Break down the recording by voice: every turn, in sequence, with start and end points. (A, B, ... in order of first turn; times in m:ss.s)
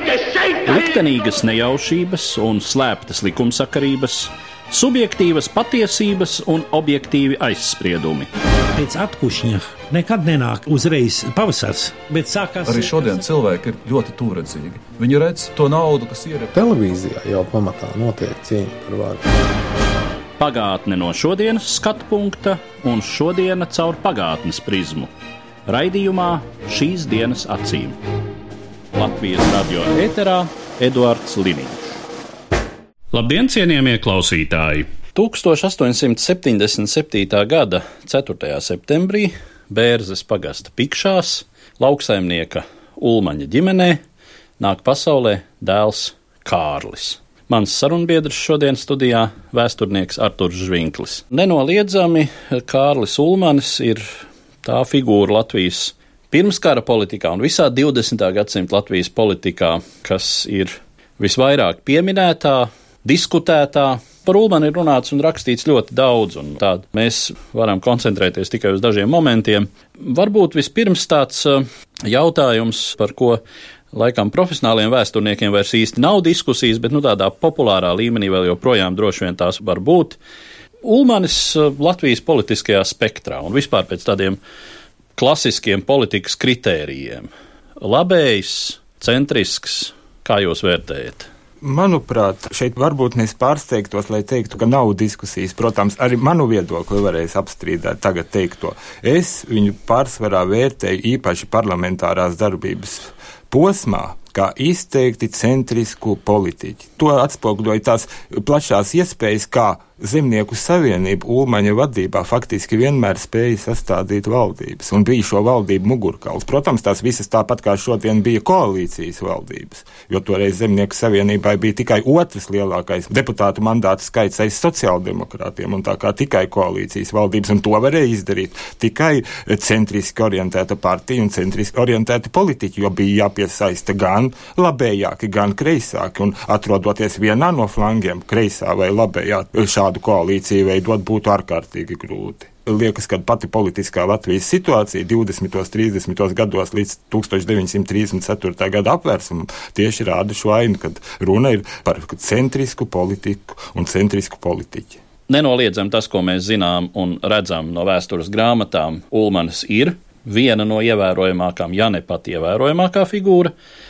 0:00.6-0:08.3 A
0:08.7-0:13.0 B
0:12.6-0:16.5 C
0:16.5-0:19.2 D
0:20.4-0:25.1 A
0:25.6-0:28.0 A
0:28.9-0:32.0 A
0:33.1-0:44.0 A
0:44.6-1:13.4 A
1:13.9-1:20.2 A
1:20.8-1:24.4 A
1:25.2-1:27.3 A
1:27.8-1:31.3 A
1:31.6-2:35.0 E
2:35.3-2:43.5 A